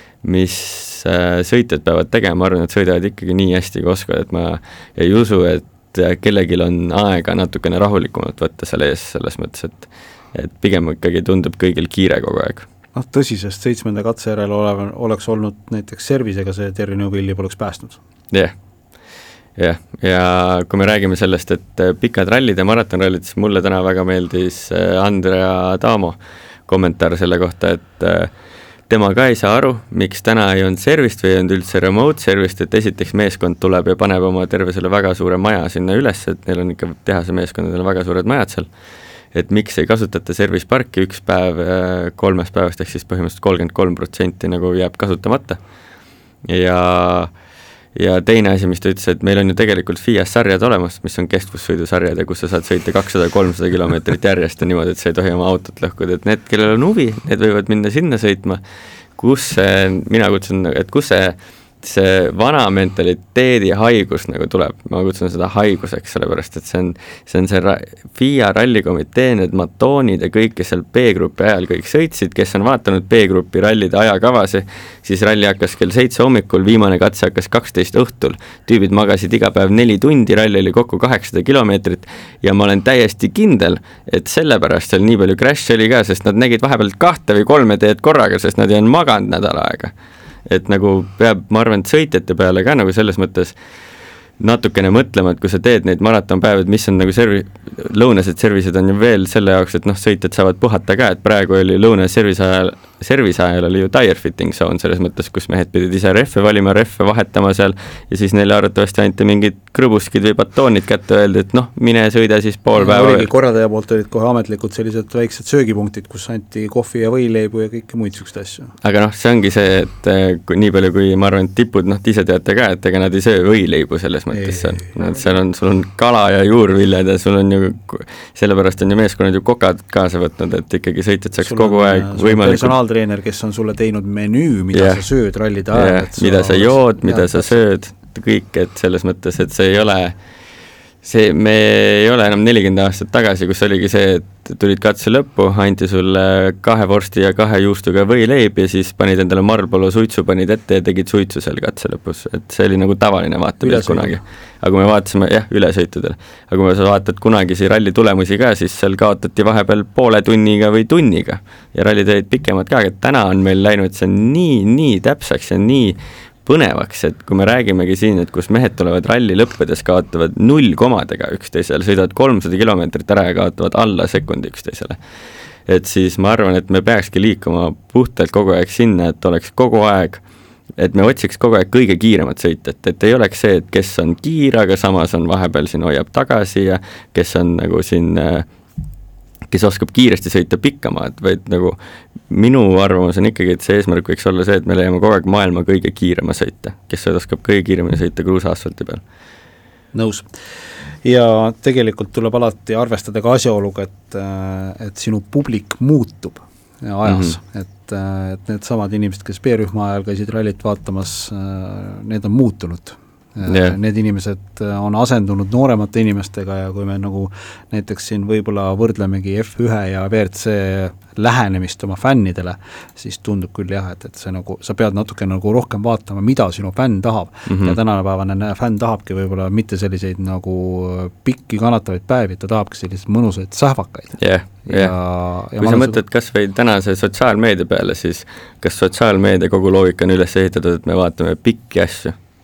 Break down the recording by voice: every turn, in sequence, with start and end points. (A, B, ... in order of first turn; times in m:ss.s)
0:00.2-0:12.7 A
0:12.9-0:18.0 B
0:19.6-0:28.3 A
0:28.9-0:38.7 A
0:39.3-0:45.6 A
0:46.5-0:47.3 A
0:47.9-0:58.6 A
0:59.2-1:29.9 A
1:30.4-1:33.5 A
1:34.4-1:53.3 A
1:52.8-1:58.7 B
1:58.8-2:12.8 A
2:04.3-2:05.2 B
2:11.4-2:17.6 B
2:14.7-2:15.0 A
2:15.7-2:20.2 A
2:21.0-2:55.0 A
2:33.6-2:34.2 B
2:55.7-3:00.2 A
3:00.8-3:08.5 A
3:09.5-3:11.8 A
3:12.3-3:19.0 A
3:19.9-3:20.3 B
3:21.0-3:56.0 B
3:27.0-3:27.4 A
3:33.4-3:33.7 A
3:47.4-3:47.8 A
3:54.2-3:54.9 A
3:55.6-4:02.2 A